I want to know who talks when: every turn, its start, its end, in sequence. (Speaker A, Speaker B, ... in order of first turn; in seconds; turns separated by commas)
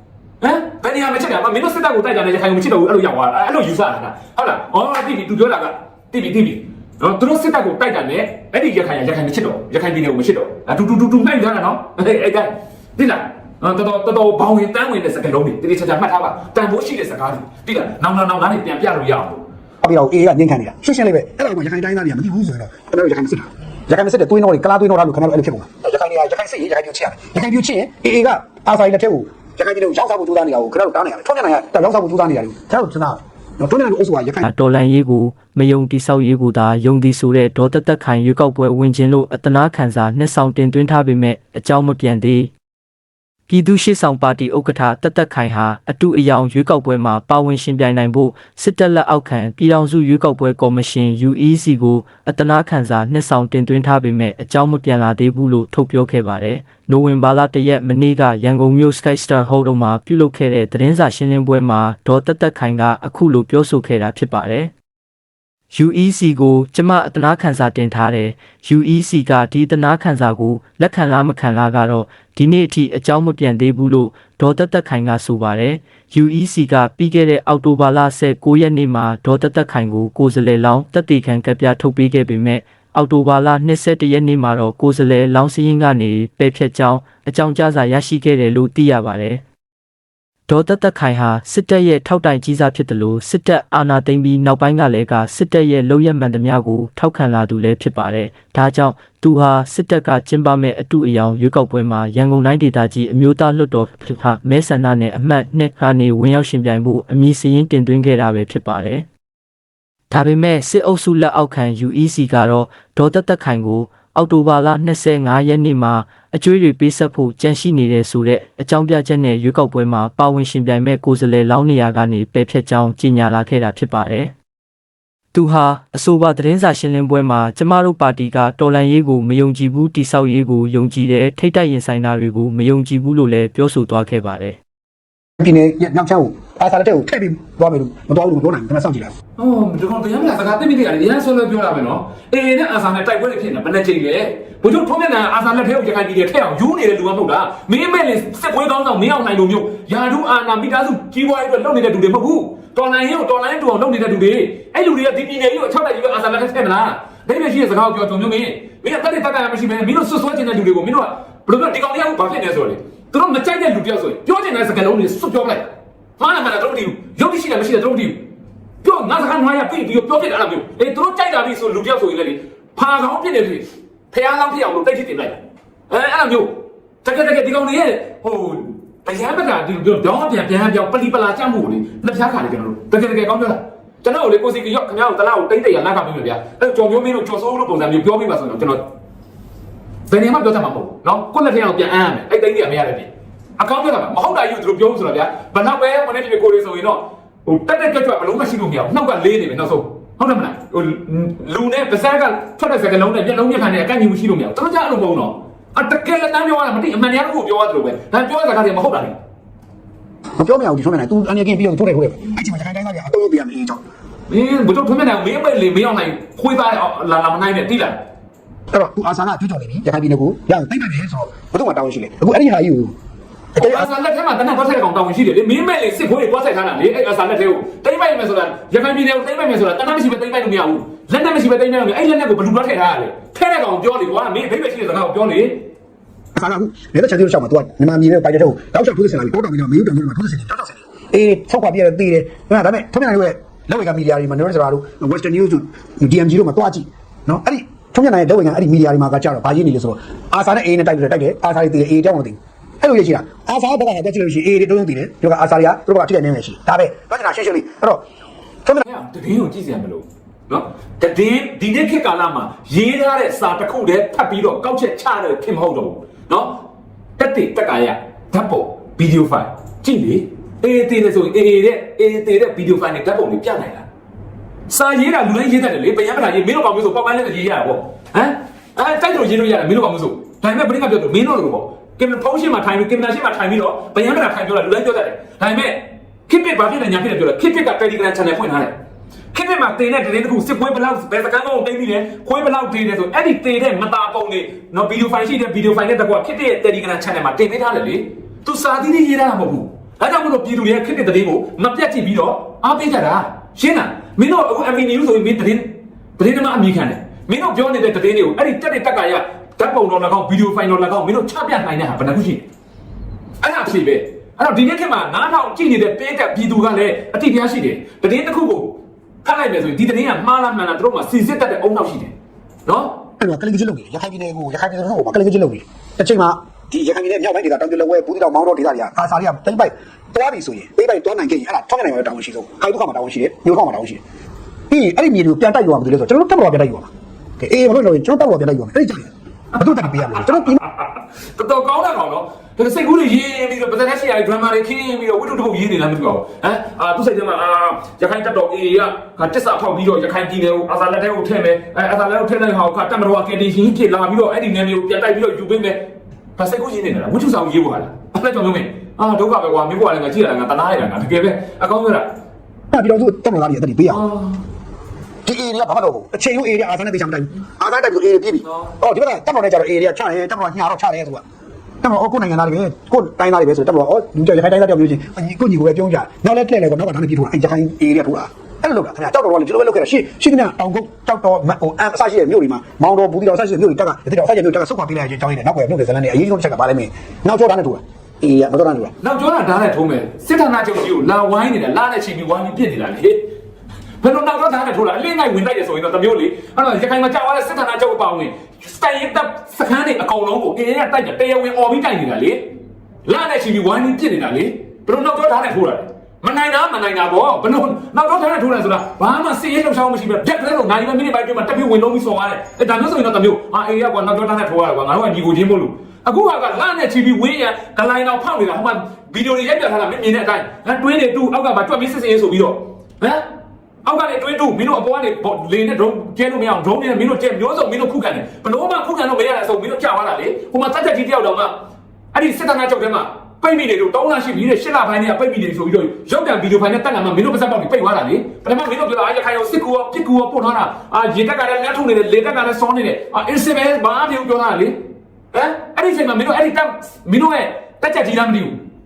Speaker A: 0.4-19.4, Speaker B: 19.8-34.5, Speaker C: 34.4-42.5, Speaker C: 43.5-64.7, Speaker C: 65.7-89.4, Speaker C: 90.5-109.1, Speaker C: 110.1-124.3, Speaker C: 125.3-134.6, Speaker B: 135.4-139.1, Speaker A: 139.4-168.2, Speaker A: 168.8-188.8, Speaker A: 190.1-209.2, Speaker B: 210.4-213.8, Speaker A: 214.3-218.0, Speaker B: 218.7-222.9, Speaker B: 223.5-223.9, Speaker A: 223.6-235.7, Speaker B: 236.3-258.0, Speaker A: 258.8-266.6, Speaker A: 267.2-273.9, Speaker A: 274.7-288.7, Speaker A: 289.3-312.5, Speaker A: 313.4-322.1, Speaker A: 322.6-322.9, Speaker B: 323.2-334.0, Speaker B: 334.7-340.6, Speaker A: 339.7-362.1, Speaker B: 362.7-364.1, Speaker A: 363.9-364.4, Speaker B: 365.2-371.2, Speaker B: 371.8-388.9, Speaker A: 389.0-393.3, Speaker A: 394.0-402.5, Speaker A: 403.0-423.2, Speaker A: 423.8-431.5, Speaker A: 432.1-444.8, Speaker A: 445.3-448.6